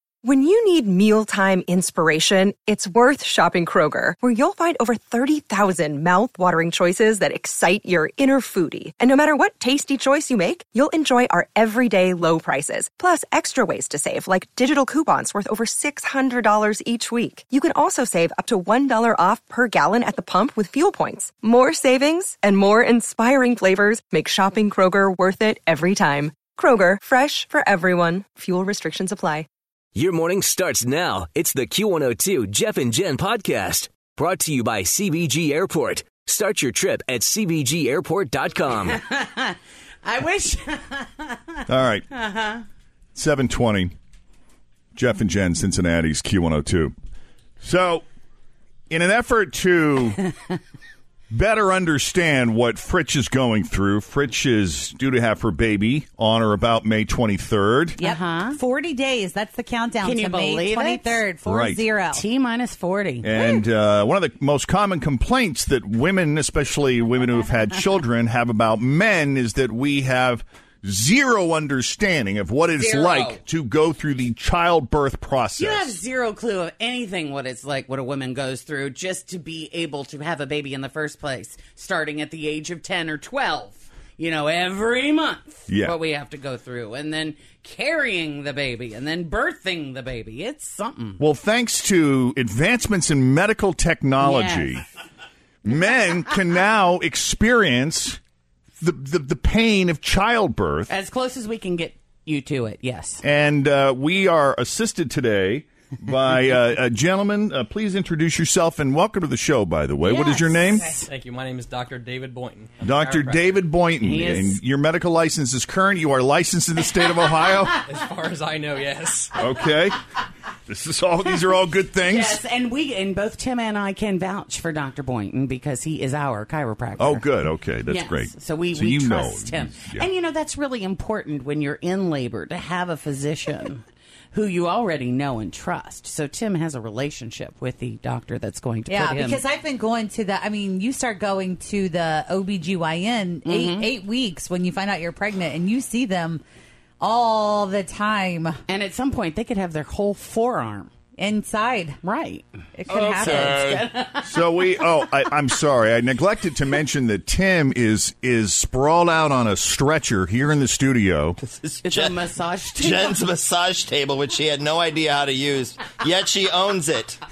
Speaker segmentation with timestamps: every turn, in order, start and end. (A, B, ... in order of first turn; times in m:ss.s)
0:00.2-0:29.4 A
0:30.0-0:39.0 B
0:38.9-0:42.6 C
0:41.7-0:42.0 D
0:43.2-0:43.9 D
0:45.0-0:46.9 D
0:47.6-0:48.0 D
0:48.9-0:50.2 D
0:51.3-0:58.0 D
0:58.0-1:02.2 E
0:58.0-0:58.6 C
1:00.0-1:01.2 C
1:01.5-1:01.8 D
1:02.1-1:03.3 C
1:03.2-1:15.9 D
1:12.8-1:13.4 F
1:15.6-1:31.2 C
1:31.2-1:34.8 D
1:34.2-1:34.8 C
1:35.7-1:38.2 D
1:38.8-1:40.9 D
1:40.9-1:43.2 C
1:43.2-1:50.9 D
1:50.0-1:51.1 C
1:51.1-1:53.6 G
1:52.8-1:57.7 D
1:54.0-1:54.6 C
1:57.9-1:59.4 G
1:59.4-1:59.9 D
2:00.7-2:02.4 D
2:02.0-2:07.3 C
2:07.0-2:10.1 D
2:07.8-2:13.8 C
2:14.3-2:19.4 C
2:18.9-2:26.4 E
2:23.4-2:23.9 C
2:27.0-2:28.6 E
2:28.7-2:30.9 C
2:31.2-2:32.0 E
2:32.0-2:32.4 C
2:32.8-2:33.7 E
2:32.9-2:33.9 F
2:33.1-2:34.7 C
2:34.2-2:41.4 D
2:41.4-2:47.2 F
2:41.8-2:43.2 C